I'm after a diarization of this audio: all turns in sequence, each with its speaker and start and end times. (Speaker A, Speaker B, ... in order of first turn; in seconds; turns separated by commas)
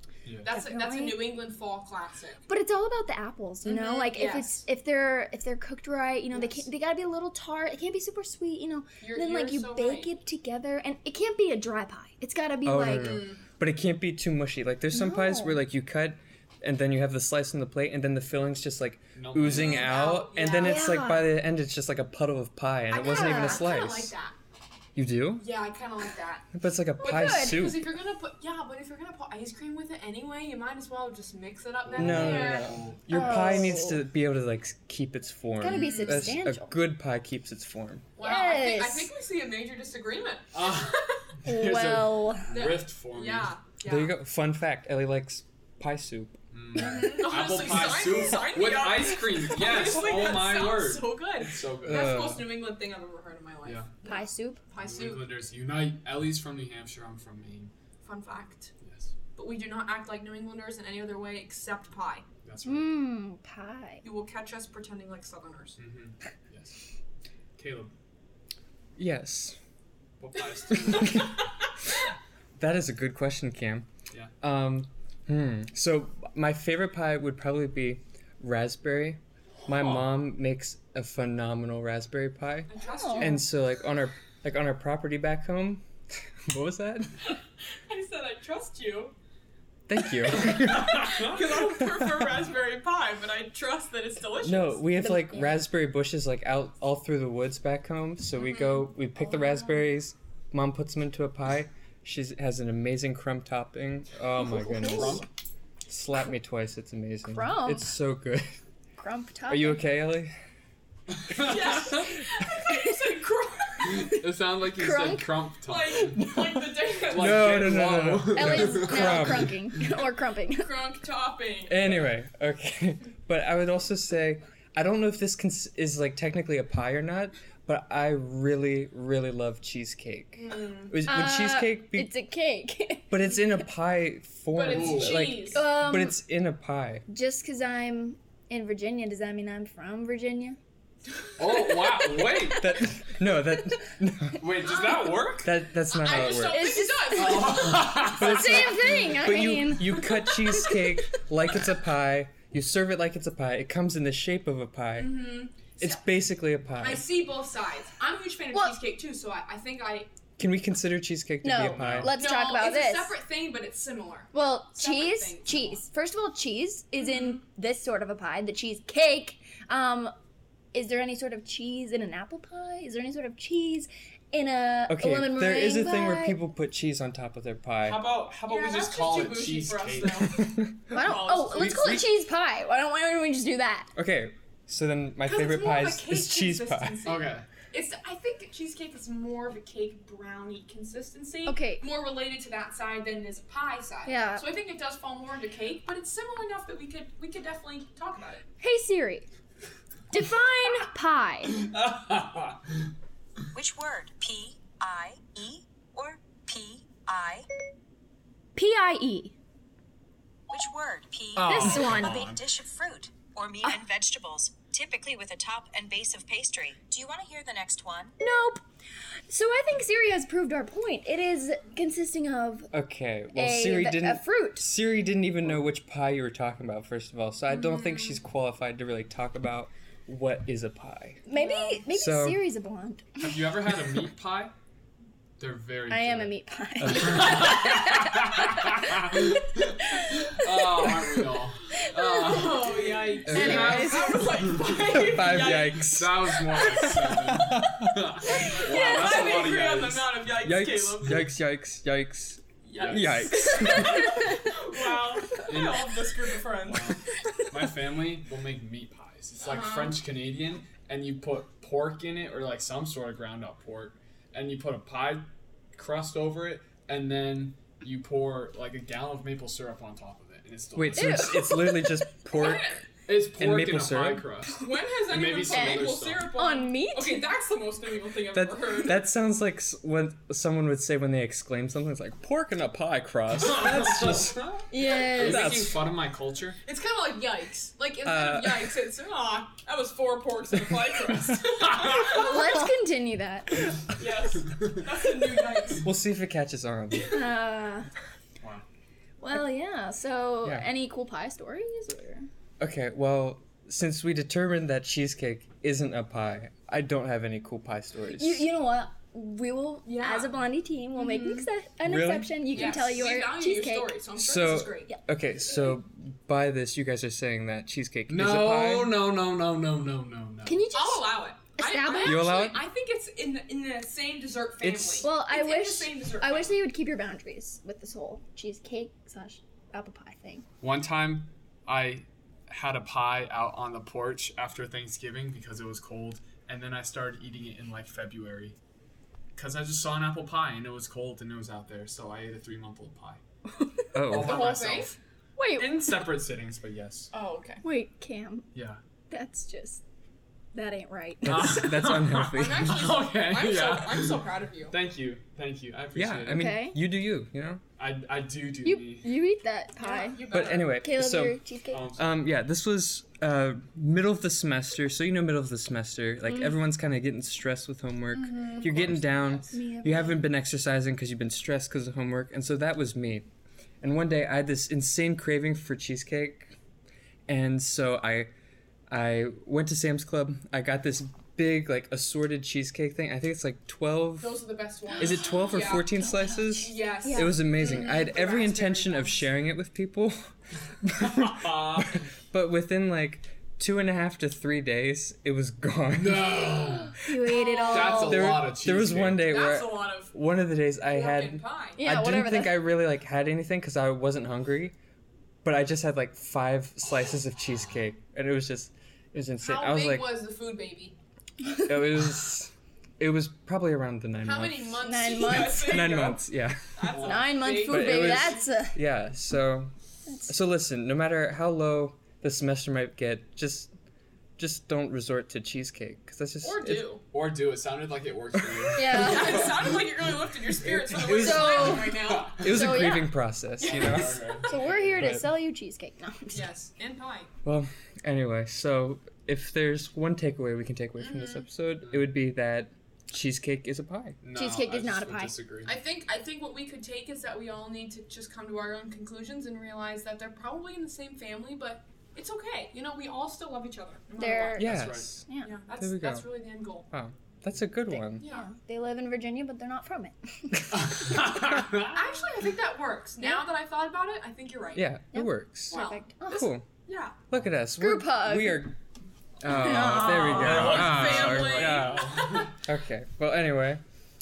Speaker A: 0.2-0.5, Speaker B: 0.4-2.4, Speaker C: 0.5-1.3, Speaker C: 2.5-13.2, Speaker B: 3.6-4.6, Speaker B: 6.3-6.7, Speaker B: 9.0-10.1, Speaker D: 12.6-24.1, Speaker B: 12.9-13.4, Speaker C: 14.9-15.6, Speaker A: 19.1-19.9, Speaker B: 19.4-20.8, Speaker C: 20.5-21.3, Speaker B: 22.9-24.4, Speaker C: 23.0-23.7, Speaker D: 24.9-25.4, Speaker B: 25.4-26.5, Speaker D: 26.5-27.9, Speaker C: 27.0-27.7, Speaker B: 27.0-32.8, Speaker A: 31.9-33.6, Speaker D: 31.9-38.1, Speaker C: 33.1-34.0, Speaker C: 35.6-36.8, Speaker B: 35.7-36.3, Speaker B: 38.2-41.2, Speaker C: 38.2-39.1, Speaker A: 40.5-43.5, Speaker C: 41.4-42.5, Speaker B: 42.5-44.1, Speaker D: 43.8-46.4, Speaker A: 46.5-52.1, Speaker B: 46.7-55.3, Speaker D: 51.8-52.5, Speaker C: 54.0-54.6, Speaker A: 54.8-57.7, Speaker B: 58.0-58.7, Speaker A: 58.8-59.1, Speaker B: 59.3-62.2, Speaker A: 62.4-63.0, Speaker C: 62.6-64.0, Speaker B: 64.0-65.8, Speaker A: 65.8-66.8, Speaker A: 67.6-67.9, Speaker D: 69.0-69.6, Speaker A: 70.2-71.3, Speaker B: 70.7-71.4, Speaker D: 70.8-71.3, Speaker D: 72.6-73.9, Speaker D: 74.4-85.8, Speaker A: 79.7-80.0, Speaker B: 82.7-83.5, Speaker C: 83.0-83.3, Speaker D: 86.5-87.1, Speaker B: 87.9-89.1, Speaker D: 89.9-91.3, Speaker B: 90.2-94.8, Speaker D: 94.4-105.2, Speaker C: 95.0-95.6, Speaker B: 98.3-98.9, Speaker C: 104.4-105.2, Speaker A: 104.7-105.2, Speaker D: 105.9-108.5, Speaker C: 107.3-107.9, Speaker C: 109.0-109.8, Speaker D: 109.5-110.3, Speaker A: 111.3-111.8, Speaker B: 111.3-114.0, Speaker A: 113.8-116.3, Speaker C: 114.7-115.4, Speaker B: 115.6-117.4, Speaker A: 117.0-119.5, Speaker D: 117.1-119.5, Speaker C: 118.3-120.7, Speaker B: 120.6-121.9, Speaker D: 121.7-132.1, Speaker B: 130.3-131.0, Speaker C: 131.0-133.7, Speaker D: 133.1-137.0, Speaker B: 134.5-135.7, Speaker A: 134.7-135.2, Speaker C: 135.4-136.2, Speaker C: 137.1-140.6, Speaker A: 141.4-142.7, Speaker D: 142.6-144.6, Speaker A: 144.4-145.5, Speaker D: 145.4-147.0, Speaker B: 145.9-147.9, Speaker C: 146.2-150.8, Speaker A: 147.1-148.4, Speaker D: 148.0-157.1, Speaker B: 154.9-156.0, Speaker B: 156.7-160.1, Speaker C: 158.5-158.8, Speaker D: 160.4-162.1, Speaker C: 161.4-163.1, Speaker A: 161.7-162.1, Speaker B: 162.2-165.8, Speaker C: 164.3-170.1, Speaker C: 170.7-176.4, Speaker D: 174.9-178.1, Speaker A: 177.8-180.4, Speaker B: 178.4-181.9, Speaker D: 180.4-181.0, Speaker C: 180.9-183.9, Speaker D: 181.5-182.1, Speaker D: 183.9-187.1, Speaker B: 185.2-198.4, Speaker A: 187.0-187.4, Speaker C: 191.4-191.8, Speaker C: 194.0-194.5, Speaker C: 198.6-199.3, Speaker C: 200.1-201.7, Speaker A: 201.7-202.6, Speaker E: 203.5-207.5, Speaker C: 208.5-209.3, Speaker E: 210.5-218.1, Speaker A: 211.3-212.5, Speaker C: 211.4-212.2, Speaker C: 218.2-218.6, Speaker C: 219.3-222.7, Speaker D: 222.7-231.2, Speaker C: 223.3-224.7, Speaker C: 231.3-233.1, Speaker B: 231.3-231.8, Speaker D: 231.9-232.5, Speaker A: 233.2-234.5, Speaker A: 235.4-236.3, Speaker C: 235.9-244.4, Speaker D: 236.8-237.3, Speaker A: 237.0-239.6, Speaker A: 240.3-243.9, Speaker B: 242.2-245.9, Speaker D: 243.3-243.9, Speaker D: 244.9-247.9, Speaker A: 245.0-250.2, Speaker B: 248.4-251.3, Speaker D: 250.4-254.2, Speaker B: 252.6-256.9, Speaker A: 252.8-253.5, Speaker A: 255.4-255.9, Speaker A: 256.6-271.3, Speaker B: 259.4-260.0, Speaker D: 270.7-274.3, Speaker C: 270.9-272.1, Speaker B: 272.3-272.8, Speaker A: 273.1-276.3, Speaker B: 274.5-279.1, Speaker C: 275.4-277.3, Speaker D: 278.3-284.4, Speaker A: 283.4-286.6, Speaker C: 284.7-285.5, Speaker D: 285.1-285.8, Speaker B: 286.6-292.6, Speaker D: 288.0-288.8, Speaker C: 292.0-293.8, Speaker B: 294.0-295.9, Speaker D: 295.8-297.2, Speaker C: 297.1-297.9, Speaker C: 299.2-302.3, Speaker D: 300.4-300.7, Speaker D: 302.6-308.5, Speaker C: 308.1-313.9, Speaker B: 309.9-310.3, Speaker B: 310.9-311.5, Speaker D: 311.8-312.8, Speaker B: 312.5-314.9, Speaker D: 314.2-319.0, Speaker A: 318.1-320.6, Speaker C: 320.4-322.5, Speaker B: 320.7-326.6, Speaker D: 322.0-322.6, Speaker D: 324.6-325.0, Speaker C: 325.0-330.4, Speaker A: 330.6-338.6, Speaker A: 339.3-343.2, Speaker D: 343.9-344.6, Speaker A: 344.1-344.9, Speaker B: 344.2-344.9, Speaker C: 345.4-346.0, Speaker A: 345.5-347.1, Speaker B: 347.1-347.6, Speaker C: 347.6-348.5, Speaker A: 348.5-348.8, Speaker C: 349.1-349.8, Speaker C: 350.5-351.6, Speaker D: 351.2-352.7, Speaker A: 351.2-356.5, Speaker B: 352.4-354.8, Speaker D: 355.9-357.6, Speaker C: 356.3-356.8, Speaker A: 357.8-359.1, Speaker C: 358.6-361.8, Speaker B: 359.8-360.8, Speaker D: 360.3-361.4, Speaker A: 361.7-362.1, Speaker D: 361.9-373.3, Speaker B: 368.1-369.5, Speaker C: 369.5-370.3, Speaker D: 373.8-376.5, Speaker D: 377.3-378.3, Speaker D: 378.9-384.4, Speaker B: 384.2-385.9, Speaker D: 385.0-391.8, Speaker C: 385.9-387.4, Speaker B: 386.6-389.3, Speaker A: 391.2-392.0, Speaker D: 392.3-396.6, Speaker A: 395.9-397.0, Speaker C: 397.1-398.1, Speaker B: 397.3-398.3, Speaker A: 397.6-399.3, Speaker D: 398.0-404.8, Speaker B: 399.3-400.1, Speaker B: 400.9-401.8, Speaker C: 401.8-402.6, Speaker D: 405.4-410.2, Speaker B: 409.4-411.0, Speaker D: 411.6-416.8, Speaker B: 414.2-416.2, Speaker C: 414.8-416.0, Speaker B: 416.8-418.4, Speaker A: 416.9-417.4, Speaker C: 416.9-418.8, Speaker D: 417.4-419.7, Speaker C: 420.1-420.3, Speaker D: 420.2-423.7, Speaker D: 424.4-426.9, Speaker B: 426.4-427.0, Speaker A: 427.1-430.1, Speaker C: 428.7-429.6, Speaker B: 428.8-432.6, Speaker D: 430.9-431.7, Speaker C: 431.1-433.2, Speaker A: 431.4-432.5, Speaker D: 432.4-435.3, Speaker A: 433.6-435.1, Speaker C: 434.4-436.5, Speaker B: 436.3-437.3, Speaker D: 437.4-444.2, Speaker B: 441.0-441.4, Speaker A: 441.8-442.1, Speaker A: 444.2-445.8, Speaker C: 444.3-445.3, Speaker B: 445.6-454.6, Speaker C: 454.1-455.5, Speaker A: 454.5-455.2, Speaker D: 454.6-455.2, Speaker B: 455.4-456.9, Speaker D: 455.8-458.3, Speaker C: 457.9-460.9, Speaker B: 458.2-458.5, Speaker A: 461.0-461.9, Speaker B: 461.9-464.8, Speaker C: 463.2-463.5, Speaker D: 464.7-465.8, Speaker C: 465.1-466.4, Speaker B: 465.7-467.2, Speaker D: 466.3-466.7, Speaker D: 467.3-468.8, Speaker C: 467.8-468.7, Speaker D: 469.4-472.1, Speaker C: 469.5-470.9, Speaker B: 470.1-472.5, Speaker A: 470.3-472.4, Speaker D: 472.6-473.8